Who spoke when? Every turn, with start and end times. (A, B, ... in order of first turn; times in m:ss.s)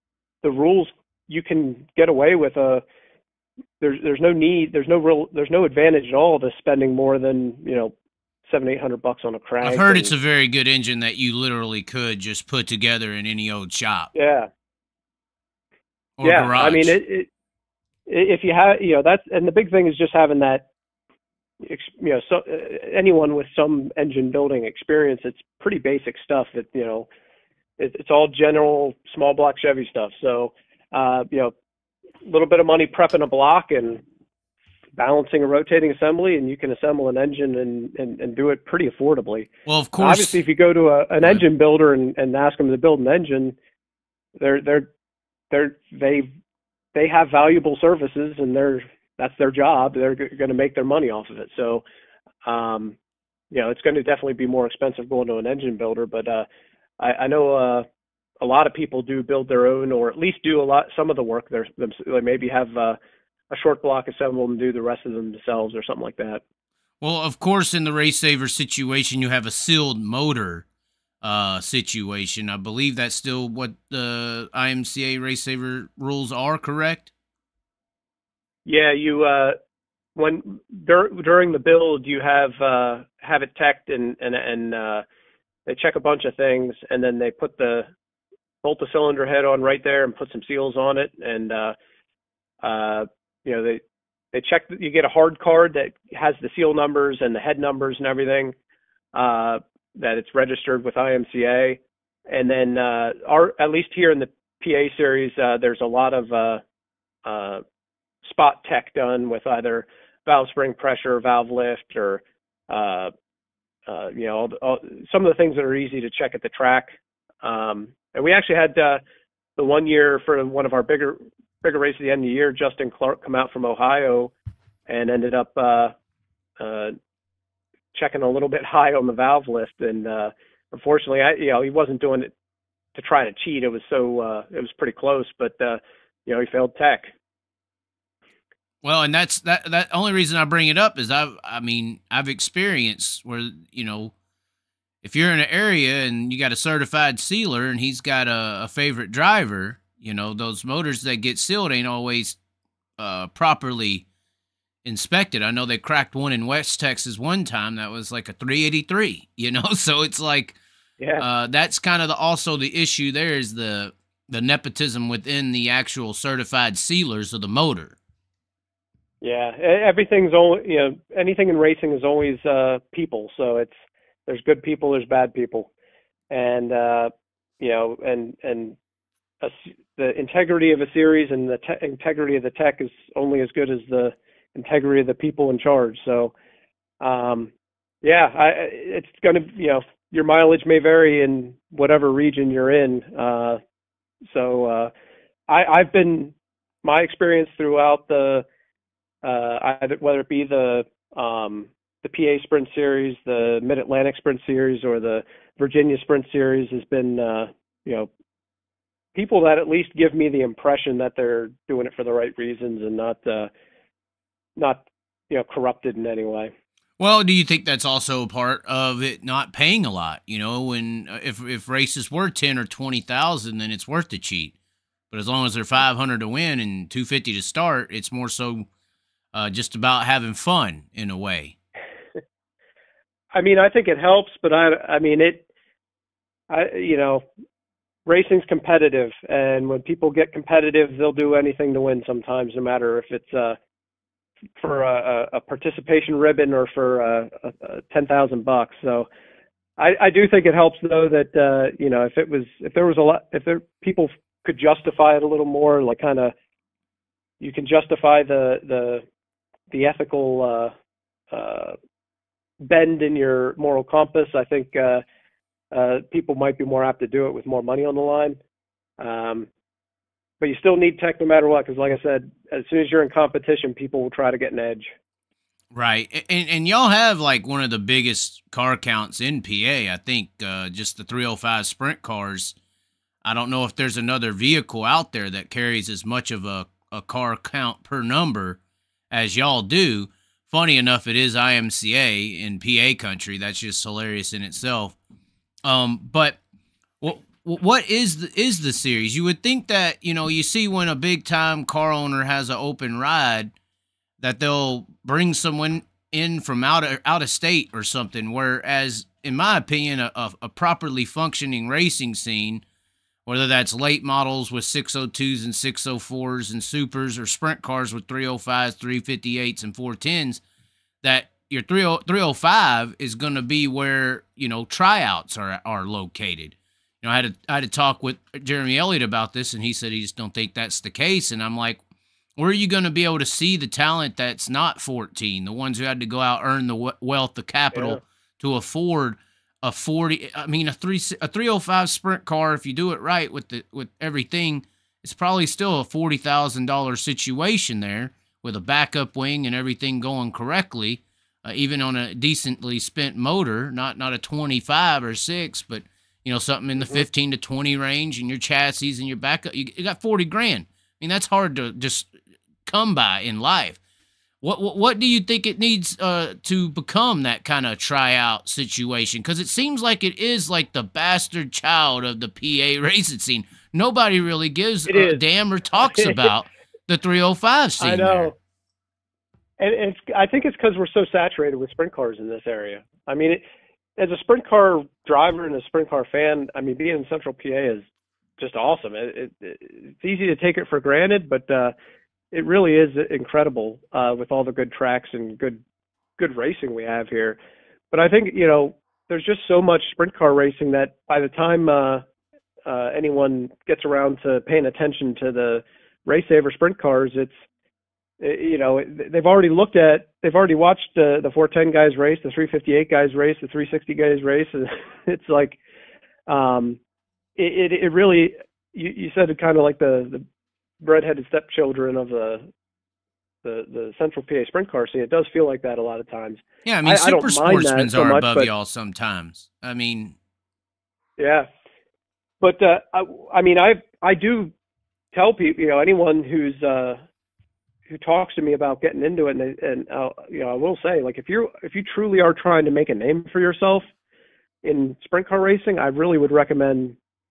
0:00.4-0:02.8 A
0:03.8-0:07.9 A
0:08.4-0:10.1 A
0:09.6-0:14.1 B
0:14.1-0:14.5 A
0:16.2-0:17.0 B
0:16.2-0:17.3 A
0:18.1-0:20.7 A
0:21.6-0:27.1 A
0:27.8-0:31.5 A
0:32.2-0:34.0 A
0:35.0-0:43.5 A
0:39.6-0:40.4 B
0:44.4-0:44.9 A
0:45.5-0:46.3 A
0:46.9-0:51.8 A
0:52.4-0:53.0 A
0:53.5-0:56.4 A
0:57.0-0:57.8 A
0:58.4-1:03.0 A
1:03.5-1:06.4 A
1:07.0-1:10.6 B
1:11.2-1:17.1 B
1:18.6-1:19.6 A
1:20.2-1:25.0 A
1:25.6-1:27.9 A
1:28.6-1:31.7 A
1:32.6-1:33.8 A
1:34.3-1:38.5 A
1:39.1-1:46.6 A
1:47.2-1:47.6 A
1:48.2-1:53.1 A
1:53.9-1:56.9 A
1:57.4-1:59.0 A
1:59.6-2:04.3 A
2:04.9-2:05.9 A
2:06.6-2:07.0 A
2:07.9-2:12.3 A
2:12.9-2:17.1 A
2:18.8-2:24.1 B
2:25.0-2:32.4 B
2:33.0-2:34.0 B
2:34.8-2:40.6 B
2:41.0-2:41.2 A
2:41.2-2:48.0 B
2:49.2-2:55.7 A
2:56.3-2:58.8 A
2:59.4-3:06.3 A
3:07.0-3:07.5 A
3:08.0-3:13.6 A
3:14.3-3:14.9 A
3:15.5-3:18.4 A
3:19.2-3:28.1 A
3:29.1-3:33.5 A
3:34.6-3:36.5 A
3:37.0-3:44.5 B
3:45.1-3:48.7 B
3:49.3-3:51.5 B
3:53.3-3:55.4 A
3:56.5-3:57.2 A
3:58.0-4:03.6 A
4:04.6-4:09.1 A
4:09.8-4:16.3 A
4:17.4-4:19.0 A
4:19.7-4:20.7 A
4:21.3-4:21.8 A
4:22.6-4:25.0 A
4:25.7-4:28.4 A
4:29.0-4:29.5 A
4:30.4-4:34.9 A
4:35.7-4:42.6 B
4:43.2-4:48.6 B
4:49.1-4:55.0 B
4:55.6-4:56.4 B
4:57.0-5:03.5 B
5:04.2-5:12.6 B
5:13.2-5:20.4 B
5:21.0-5:31.8 B
5:32.4-6:02.1 B
5:37.7-5:38.0 A
6:02.6-6:03.8 B
6:04.4-6:18.3 B
6:14.9-6:15.2 A
6:15.9-6:16.3 A
6:17.8-6:18.3 A
6:19.6-6:23.4 A
6:24.0-6:27.8 A
6:28.4-6:31.7 A
6:32.3-6:35.6 A
6:36.2-6:37.4 A
6:37.9-6:42.0 A
6:42.6-6:47.3 A
6:48.2-6:55.6 A
6:56.3-6:56.8 A
6:57.4-7:00.2 A
7:00.8-7:02.4 A
7:03.4-7:08.5 A
7:06.6-7:10.2 B
7:11.2-7:11.5 A
7:12.4-7:14.5 A
7:15.1-7:17.0 A
7:17.9-7:23.8 A
7:24.6-7:27.0 A